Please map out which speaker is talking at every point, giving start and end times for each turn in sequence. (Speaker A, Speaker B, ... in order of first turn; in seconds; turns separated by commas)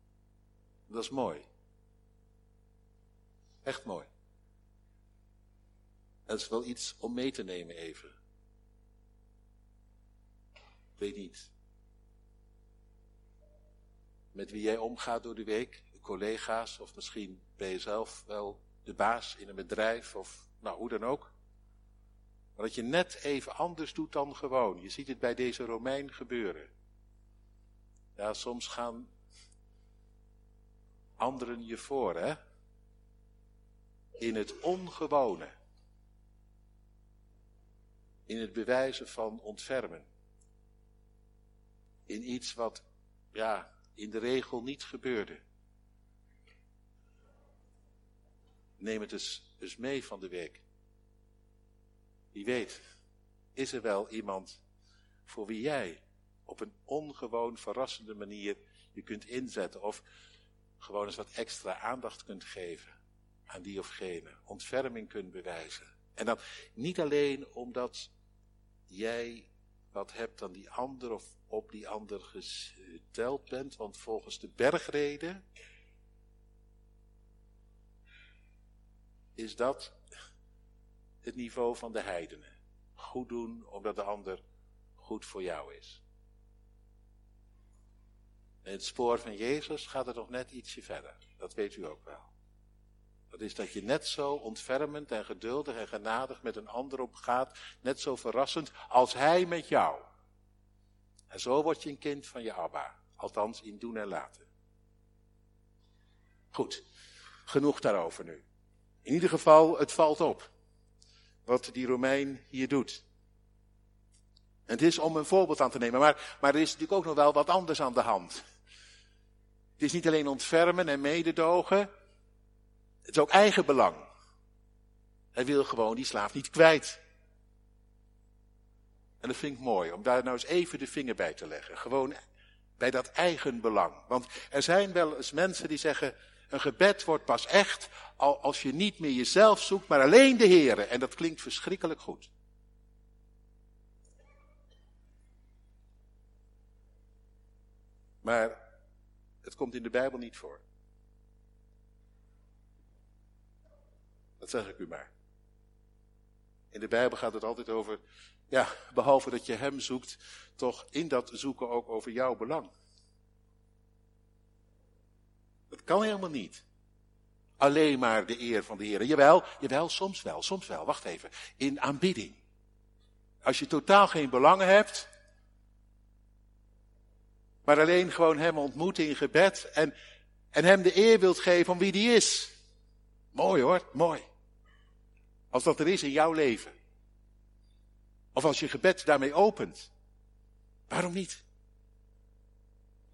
Speaker A: 0.9-1.5, Speaker A: 3.6-4.1, Speaker A: 6.3-8.2, Speaker A: 11.0-11.5, Speaker A: 14.3-21.3, Speaker A: 22.6-26.7, Speaker A: 28.2-29.1, Speaker A: 31.2-32.4, Speaker A: 34.2-35.5, Speaker A: 38.3-40.1, Speaker A: 42.1-45.4, Speaker A: 48.8-50.6, Speaker A: 52.3-52.8, Speaker A: 53.5-54.6, Speaker A: 55.2-60.0, Speaker A: 60.8-68.1, Speaker A: 68.9-75.4, Speaker A: 79.4-80.0, Speaker A: 81.2-84.4, Speaker A: 85.0-86.0, Speaker A: 88.7-92.3, Speaker A: 93.3-100.0, Speaker A: 101.3-104.5, Speaker A: 106.5-106.8, Speaker A: 107.5-108.4, Speaker A: 109.0-110.5, Speaker A: 111.5-113.0, Speaker A: 114.7-118.4, Speaker A: 119.8-121.9, Speaker A: 123.1-124.1, Speaker A: 125.3-127.0, Speaker A: 129.2-132.2, Speaker A: 132.8-142.3, Speaker A: 148.2-148.6, Speaker A: 149.4-150.6, Speaker A: 154.4-155.1, Speaker A: 156.7-162.7, Speaker A: 165.7-166.6, Speaker A: 167.6-172.4, Speaker A: 173.4-175.1, Speaker A: 177.7-179.9, Speaker A: 180.5-182.6, Speaker A: 183.3-184.2, Speaker A: 185.5-186.7, Speaker A: 188.3-189.9, Speaker A: 190.9-191.4